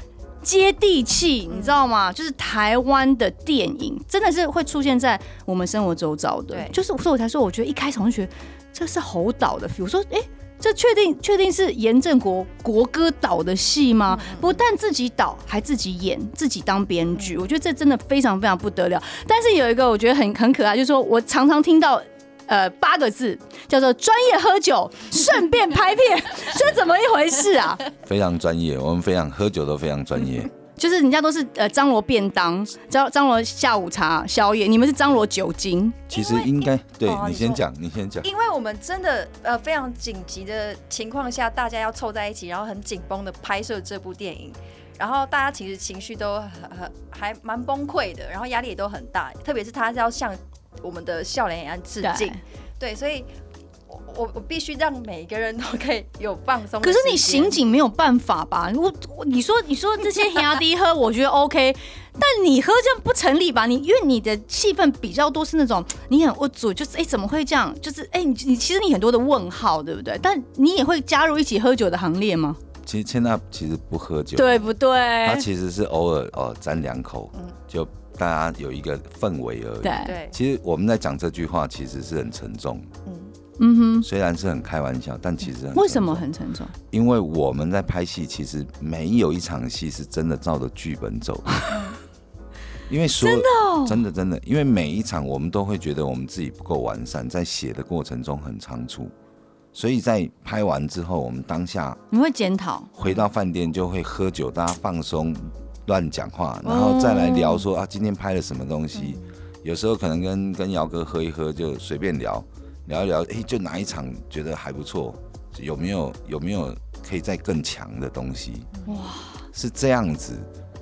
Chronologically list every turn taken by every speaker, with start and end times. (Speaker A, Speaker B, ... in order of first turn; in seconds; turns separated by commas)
Speaker A: 0.4-27.8, Speaker B: 1.5-1.8, Speaker B: 6.5-6.8, Speaker B: 14.1-14.7, Speaker C: 28.0-30.5, Speaker A: 30.8-36.1, Speaker C: 36.1-38.3, Speaker B: 36.1-36.5, Speaker B: 37.0-37.6, Speaker B: 38.2-53.3, Speaker A: 52.0-52.4, Speaker B: 53.9-57.6, Speaker A: 56.8-72.6, Speaker C: 72.8-82.9, Speaker A: 74.3-75.5, Speaker A: 79.8-80.1, Speaker B: 80.0-80.3, Speaker B: 83.1-83.3, Speaker A: 83.6-84.1, Speaker C: 84.0-86.3, Speaker A: 85.7-86.7, Speaker C: 86.9-91.7, Speaker B: 91.7-92.0, Speaker C: 92.9-99.1, Speaker A: 93.1-94.0, Speaker C: 99.7-102.0, Speaker A: 102.1-102.9, Speaker C: 103.0-118.7, Speaker A: 106.7-107.7, Speaker B: 109.0-109.2, Speaker A: 118.9-119.4, Speaker C: 119.5-120.5